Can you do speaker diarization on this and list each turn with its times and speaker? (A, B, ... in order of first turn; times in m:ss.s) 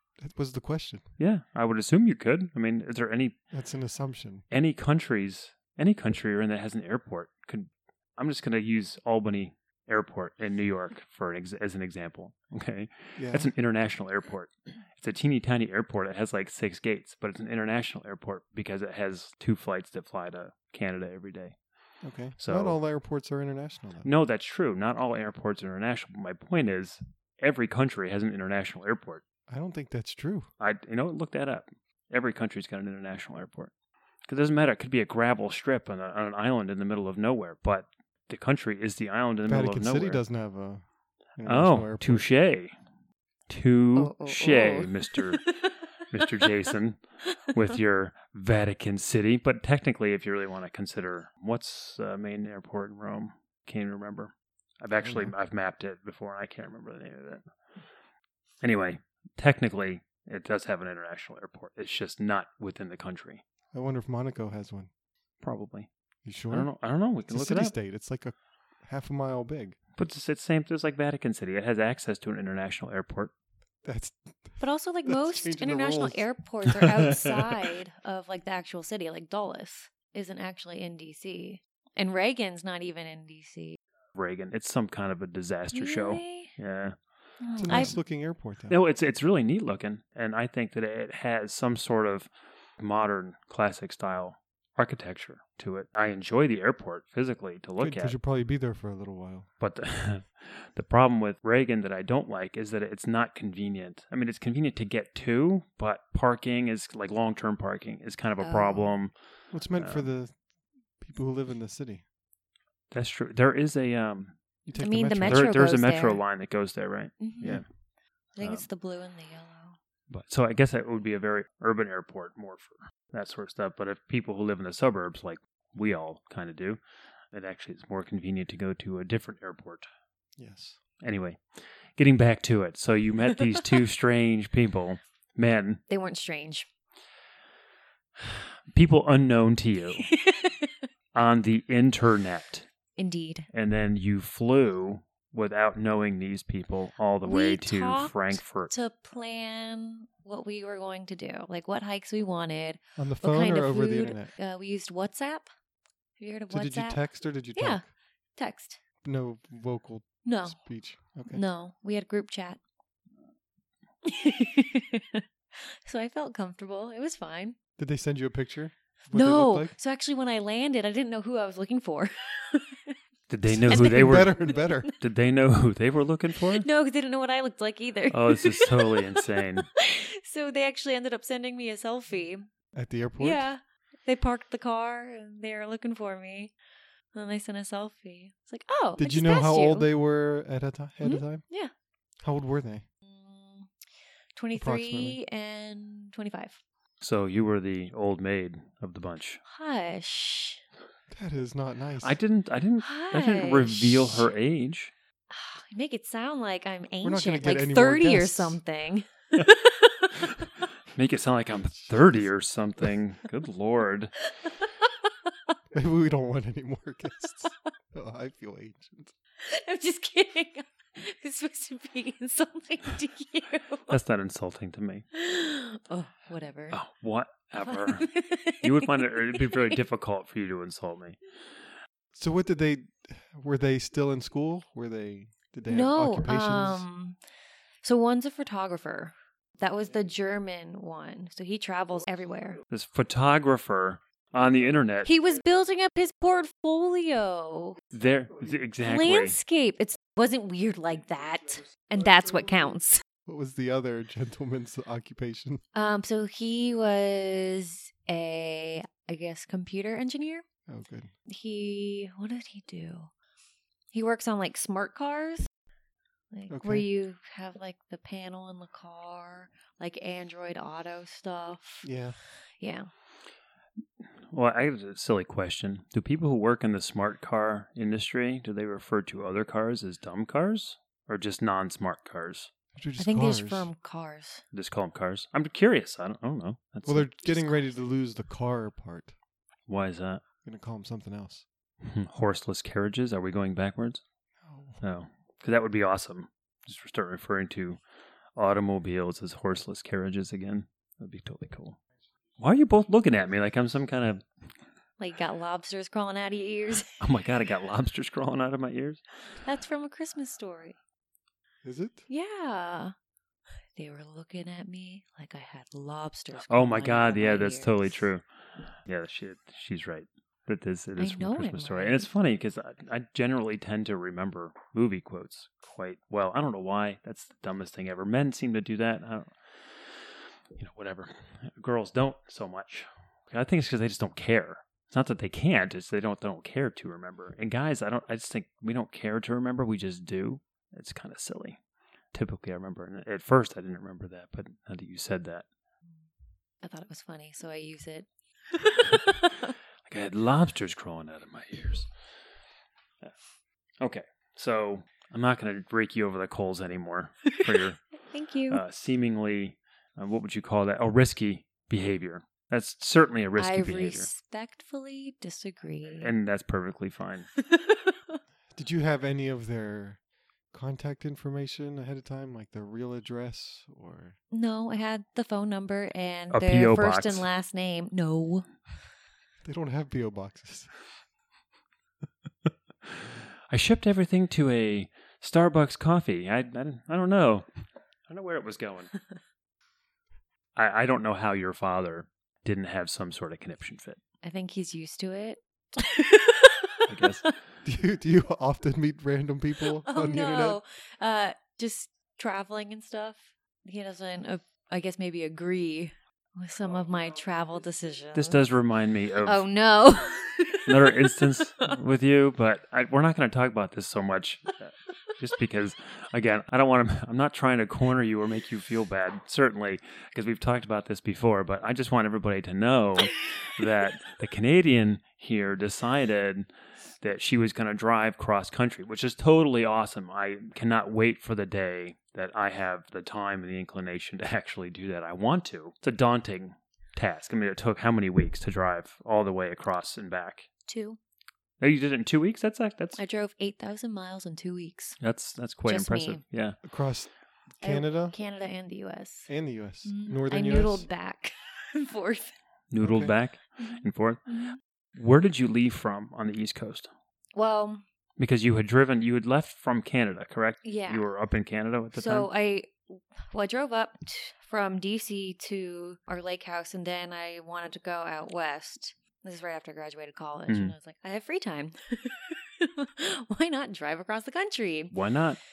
0:00.2-0:01.0 A
0:01.2-0:03.4 B
0:03.5-0:04.4 A
0:04.5-0:21.6 B
0:13.2-0:13.5 A
0:22.0-0:24.1 A
0:22.4-0:22.8 B
0:24.0-0:29.2 B
0:29.5-0:30.5 A
0:30.6-0:33.7 B
0:34.2-0:40.2 B
0:39.5-0:40.8 A
0:41.4-0:42.2 A
0:41.4-0:42.7 B
0:43.5-0:45.4 B
0:43.9-0:46.5 C
0:46.1-0:57.4 B
0:55.0-0:55.3 A
0:58.6-1:03.4 B
1:03.7-1:04.9 A
1:05.4-1:05.9 B
1:06.2-1:09.8 A
1:06.5-1:07.7 B
1:10.0-1:13.3 B
1:13.8-1:17.2 A
1:14.6-1:23.8 C
1:24.1-1:27.0 B
1:25.7-1:26.6 C
1:27.4-1:27.9 C
1:27.6-1:28.8 A
1:27.6-1:28.0 B
1:28.7-1:38.1 B
1:37.8-1:39.5 A
1:39.6-1:49.1 B
1:48.4-1:49.0 C
1:49.5-1:50.4 A
1:49.8-1:50.1 B
1:51.0-1:52.0 A
1:52.9-1:54.4 B
1:54.6-1:55.6 A
1:54.8-1:56.2 C
1:55.3-1:57.6 B
1:57.2-1:57.6 C
1:58.3-1:59.8 C
1:58.4-1:58.6 B
2:00.1-2:06.8 B
2:07.3-2:09.9 B
2:10.4-2:10.8 A
2:11.0-2:11.4 B
2:12.0-2:15.8 B
2:15.9-2:16.7 C
2:18.2-2:20.1 B
2:20.0-2:20.7 C
2:21.1-2:22.6 B
2:23.0-2:23.5 C
2:23.5-2:28.7 B
2:27.2-2:35.5 C
2:33.0-2:34.3 A
2:36.2-2:37.8 C
2:36.5-2:37.8 A
2:38.4-2:38.8 C
2:39.0-2:41.4 A
2:40.2-2:42.6 C
2:44.0-2:47.6 C
2:47.8-2:49.7 A
2:49.1-2:53.0 C
2:53.3-2:54.4 B
2:53.4-2:54.9 A
2:53.7-2:55.0 C
2:55.0-2:56.6 B
2:56.5-3:02.5 C
2:58.1-2:59.7 B
3:02.7-3:03.4 A
3:03.2-3:06.5 C
3:07.1-3:09.9 C
3:09.0-3:11.4 A
3:11.0-3:11.7 C
3:12.2-3:12.8 A
3:13.0-3:13.7 C
3:14.3-3:16.6 C
3:14.5-3:15.2 A
3:17.0-3:19.4 B
3:19.5-3:20.6 C
3:21.1-3:22.2 A
3:22.0-3:24.9 B
3:22.8-3:24.3 C
3:25.3-3:30.3 C
3:27.0-3:28.6 A
3:30.2-3:34.1 B
3:34.4-3:35.0 C
3:35.7-3:39.1 A
3:39.4-3:44.0 C
3:43.9-3:45.0 B
3:45.1-3:46.8 C
3:46.7-3:48.1 B
3:47.6-3:49.8 C
3:48.6-3:51.2 B
3:52.1-3:56.9 A
3:55.7-3:57.2 C
3:57.8-4:02.6 C
4:02.7-4:05.1 B
4:05.0-4:07.8 C
4:07.9-4:09.4 B
4:08.8-4:13.0 C
4:13.2-4:15.6 A
4:15.7-4:20.4 C
4:20.7-4:21.1 A
4:21.3-4:23.1 C
4:23.9-4:25.5 C
4:26.3-4:31.9 C
4:26.5-4:26.8 A
4:31.8-4:32.2 A
4:32.6-4:32.9 C
4:34.3-4:42.5 B
4:42.7-4:43.7 A
4:43.0-4:44.4 C
4:44.5-4:47.1 B
4:46.8-4:49.1 A
4:47.2-4:47.6 C
4:49.7-4:50.2 B
4:50.4-4:51.4 A
4:51.8-4:54.0 B
4:54.4-4:54.8 A
4:54.8-4:57.8 B
4:58.4-5:01.8 B
5:02.4-5:04.2 B
5:05.0-5:07.0 C
5:07.0-5:09.0 B
5:09.4-5:10.8 C
5:11.6-5:12.0 A
5:12.1-5:12.9 C
5:13.7-5:18.0 C
5:16.5-5:18.2 B
5:18.8-5:30.0 B
5:21.0-5:22.1 C
5:30.6-5:41.6 B
5:42.1-5:45.4 B
5:46.6-5:49.5 C
5:49.9-5:51.9 B
5:53.8-5:57.8 B
5:58.1-5:58.6 C
5:58.5-6:04.1 B
6:03.4-6:06.1 C
6:06.0-6:07.3 B
6:07.4-6:08.2 C
6:08.5-6:10.0 A
6:10.5-6:14.2 A
6:14.3-6:18.5 C
6:16.3-6:17.2 B
6:19.4-6:20.7 A
6:22.9-6:27.5 B
6:28.1-6:28.9 B
6:30.6-6:34.0 B
6:34.2-6:37.3 C
6:36.9-6:37.3 B
6:37.6-6:40.6 A
6:39.8-6:48.4 C
6:48.1-6:49.4 B
6:49.2-6:51.8 C
6:50.6-7:06.5 B
7:07.0-7:20.5 B
7:20.6-7:21.0 C
7:21.6-7:23.0 B
7:23.0-7:25.0 C
7:25.0-7:26.6 B
7:25.6-7:26.2 C
7:26.6-7:28.1 A
7:27.6-7:29.3 C
7:29.3-7:30.9 A
7:29.8-7:32.4 C
7:32.7-7:36.9 B
7:32.8-7:33.1 A
7:33.6-7:34.6 C
7:37.3-7:37.8 C
7:38.2-7:42.3 B
7:40.6-7:41.1 C
7:41.9-7:55.0 C
7:50.5-7:50.7 B
7:54.9-7:55.4 B